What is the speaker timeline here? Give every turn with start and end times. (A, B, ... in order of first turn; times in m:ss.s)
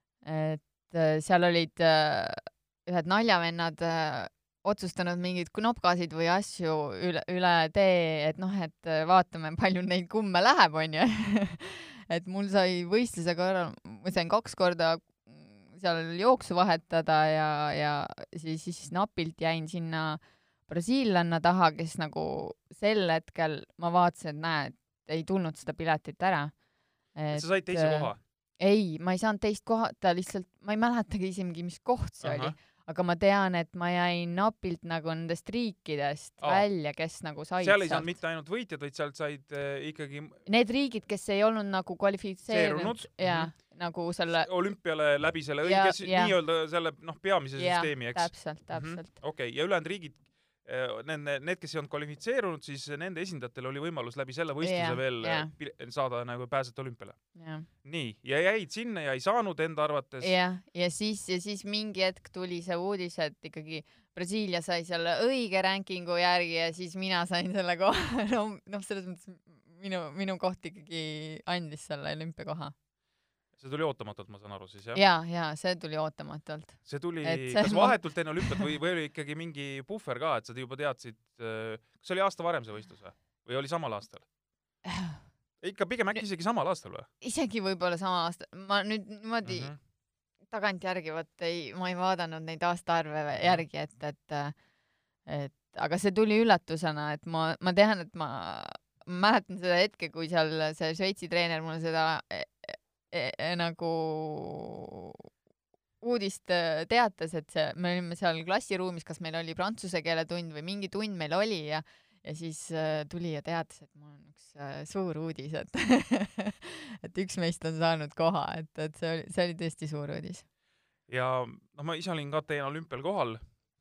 0:00.2-0:26.6 A
0:27.1-0:38.2 A
0:27.3-0:28.2 B
0:32.2-0:32.6 B
0:36.4-0:36.7 B
0:37.6-0:40.4 B
0:40.4-0:44.5 A
0:42.5-0:43.6 B
0:44.3-1:00.3 B
0:45.6-0:46.3 A
0:47.6-0:49.1 A
0:54.6-0:55.5 A
0:57.3-0:57.7 A
1:00.2-1:12.7 A
1:13.6-1:15.0 B
1:14.9-1:18.6 A
1:16.8-1:24.2 B
1:24.8-1:25.2 A
1:25.6-1:27.1 B
1:27.2-1:29.7 A
1:29.4-1:29.8 B
1:30.4-1:34.6 A
1:33.4-1:33.6 B
1:35.2-1:45.1 A
1:46.0-2:00.4 A
2:01.1-2:03.4 B